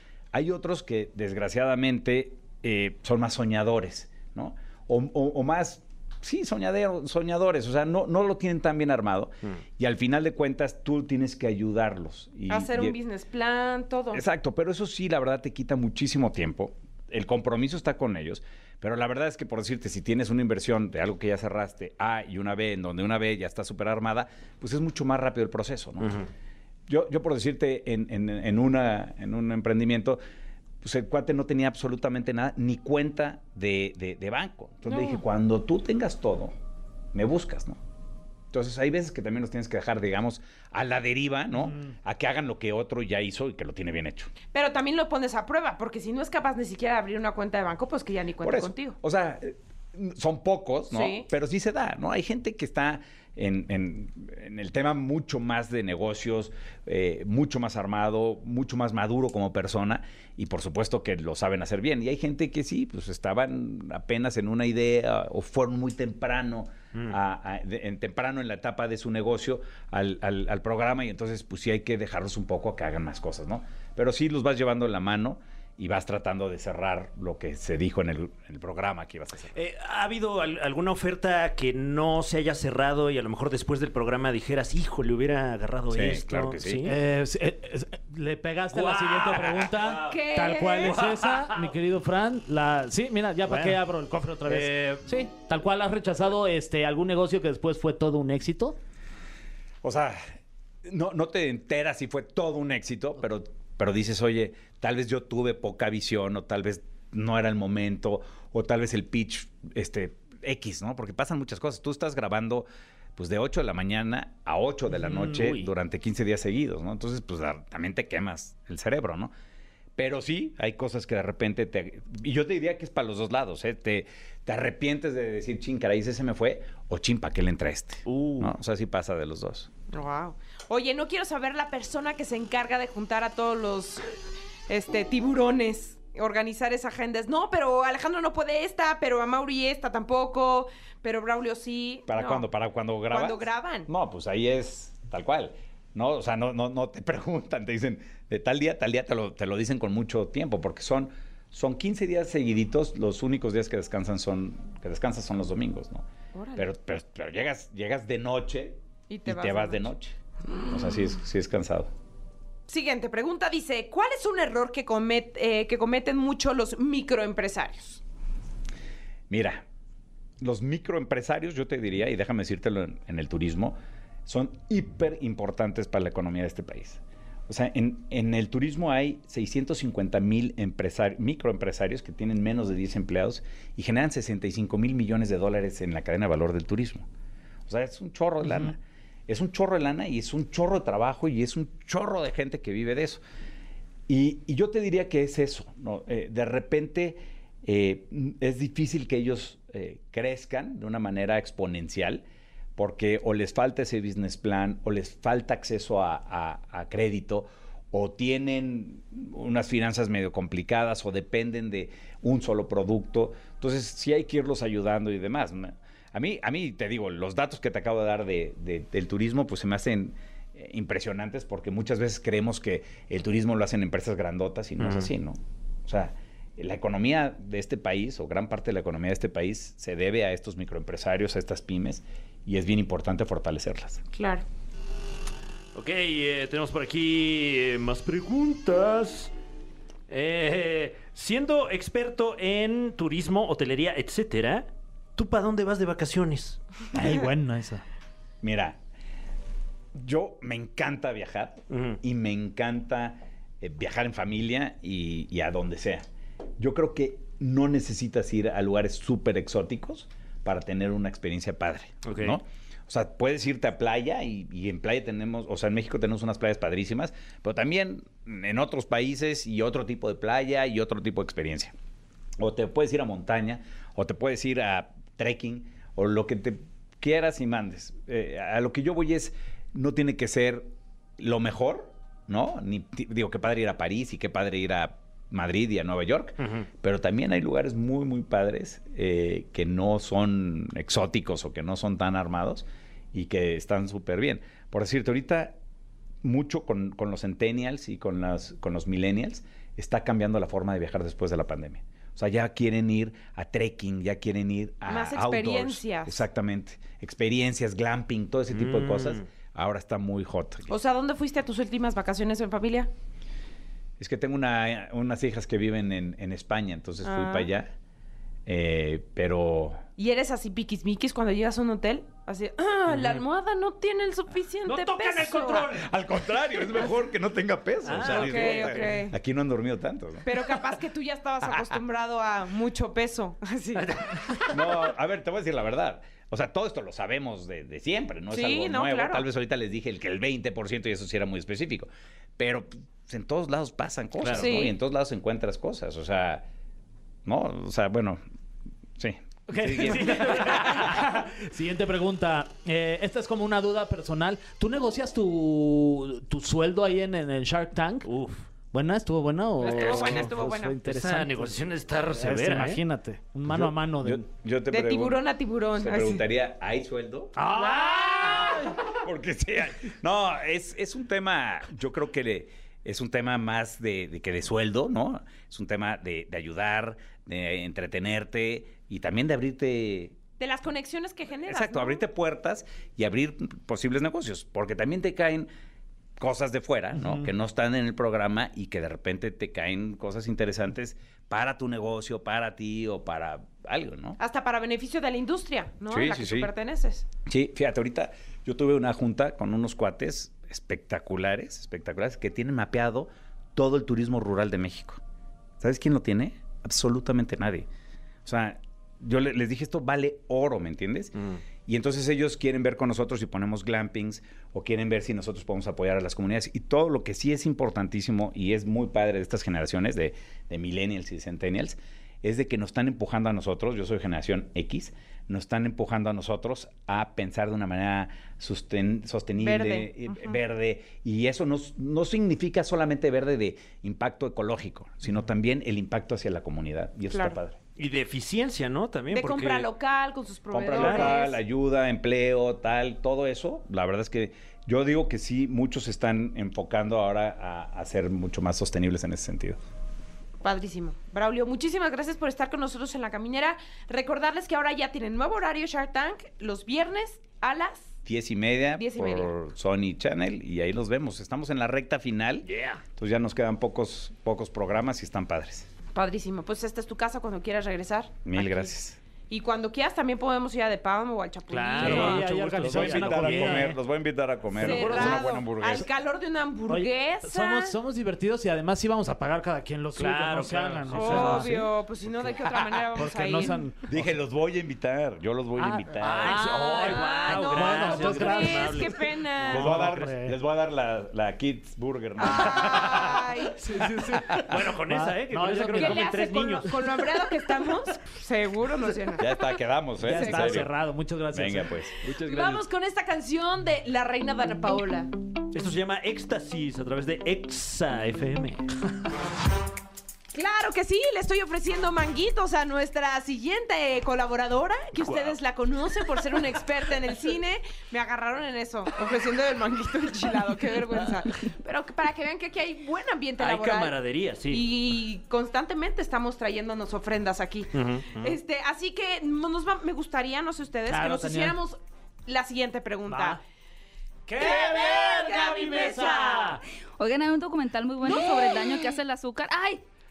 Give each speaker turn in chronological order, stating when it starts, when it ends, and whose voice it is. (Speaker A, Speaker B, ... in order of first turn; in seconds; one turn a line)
Speaker A: 0.3-12.9
Speaker B: 12.5-14.2
Speaker A: 14.1-26.1
Speaker C: 26.0-26.3
Speaker A: 26.9-30.2
Speaker A: 30.8-36.5
Speaker B: 34.9-35.2
Speaker A: 37.1-37.8
Speaker A: 38.5-44.3
Speaker B: 44.5-49.0
Speaker A: 48.4-79.5
Speaker B: 50.9-51.3
Speaker C: 66.9-67.2
Speaker C: 79.5-87.0
Speaker A: 85.9-86.9
Speaker D: 86.8-98.8
Speaker C: 88.7-90.2
Speaker B: 90.0-91.0
Speaker C: 90.8-91.7
Speaker C: 93.5-93.8
Speaker C: 94.5-95.2
Speaker A: 99.8-100.2
Speaker A: 100.8-119.3
Speaker C: 114.9-115.7
Speaker A: 120.0-129.7
Speaker C: 128.1-128.5
Speaker B: 129.9-134.1
Speaker B: 134.7-142.5
Speaker A: 142.1-160.2
Speaker B: 143.1-143.9
Speaker B: 156.3-156.7
Speaker B: 159.1-159.9
Speaker B: 160.5-161.0
Speaker A: 160.7-161.9
Speaker B: 162.7-168.0
Speaker A: 169.3-169.6
Speaker A: 170.4-187.1
Speaker A: 187.7-193.2
Speaker A: 194.1-202.2
Speaker A: 202.8-234.0
Speaker C: 224.8-225.1
Speaker B: 234.1-234.4
Speaker C: 235.7-239.3
Speaker C: 240.1-246.6
Speaker D: 246.9-247.8
Speaker A: 248.4-248.8
Speaker A: 249.9-256.0
Speaker C: 251.7-252.0
Speaker A: 256.6-271.7
Speaker C: 262.0-262.4
Speaker A: 272.4-295.6
Speaker C: 286.4-286.7
Speaker A: 296.2-310.7
Speaker B: 304.9-306.2
Speaker C: 308.5-309.3
Speaker B: 310.7-312.9
Speaker A: 314.0-317.7
Speaker B: 317.0-317.5
Speaker A: 318.4-319.8
Speaker B: 320.0-325.8
Speaker C: 322.9-323.2
Speaker C: 324.6-325.9
Speaker A: 325.6-330.3
Speaker C: 327.8-329.0
Speaker B: 328.0-329.1
Speaker B: 330.2-334.0
Speaker A: 331.5-331.8
Speaker C: 333.8-334.7
Speaker A: 334.5-346.4
Speaker B: 338.3-339.3
Speaker C: 344.2-344.6
Speaker B: 344.3-344.7
Speaker A: 347.2-348.2
Speaker A: 349.0-350.8
Speaker D: 349.5-358.1
Speaker C: 349.7-351.0
Speaker C: 358.0-358.4
Speaker D: 358.7-361.6
Speaker B: 359.6-360.8
Speaker C: 359.7-360.3
Speaker C: 360.8-362.8
Speaker D: 362.1-364.2
Speaker A: 363.5-367.4
Speaker B: 364.7-366.2
Speaker D: 367.4-368.8
Speaker B: 367.6-368.6
Speaker A: 368.9-380.2
Speaker B: 380.4-382.0
Speaker A: 381.4-385.5
Speaker A: 386.2-394.2
Speaker D: 387.0-387.3
Speaker B: 394.2-397.1
Speaker A: 395.9-396.5
Speaker A: 397.3-405.0
Speaker A: 405.6-407.7
Speaker A: 408.2-411.1
Speaker C: 411.1-411.4
Speaker A: 411.6-437.6
Speaker B: 429.4-430.4
Speaker B: 437.1-437.4
Speaker C: 437.8-439.7
Speaker B: 439.1-441.4
Speaker A: 440.5-449.6
Speaker C: 440.7-441.2
Speaker B: 450.4-457.9
Speaker A: 458.0-465.7
Speaker B: 458.7-459.3
Speaker C: 462.4-462.8
Speaker B: 465.9-468.7
Speaker A: 468.2-469.0
Speaker B: 469.3-472.2
Speaker C: 471.5-473.7
Speaker D: 471.8-473.8
Speaker A: 471.8-475.9
Speaker C: 474.6-475.3
Speaker B: 474.6-477.8
Speaker D: 476.7-481.7
Speaker C: 479.9-481.6
Speaker B: 480.9-483.7
Speaker D: 482.9-484.1
Speaker A: 483.8-486.4
Speaker D: 485.6-488.9
Speaker C: 485.9-489.9
Speaker B: 486.8-489.7
Speaker A: 489.5-493.2
Speaker D: 489.5-490.4
Speaker B: 492.2-493.6
Speaker D: 493.6-496.1
Speaker A: 494.1-494.4
Speaker C: 494.3-497.1
Speaker B: 495.7-499.6
Speaker A: 499.2-500.7
Speaker D: 500.0-501.8
Speaker B: 500.1-500.6
Speaker A: 501.3-501.9
Speaker C: 502.0-502.6
Speaker B: 502.1-505.1
Speaker C: 505.5-508.7
Speaker B: 510.3-524.0
Speaker C: 515.0-515.4
Speaker C: 523.4-524.7
Speaker B: 524.5-533.4
Speaker C: 527.7-528.4
Speaker D: 530.9-531.6
Speaker D: 533.1-533.4
Speaker D: 534.3-536.6
Speaker B: 534.4-536.6
Speaker E: 537.0-539.8
Speaker D: 538.1-538.7
Speaker B: 538.2-538.7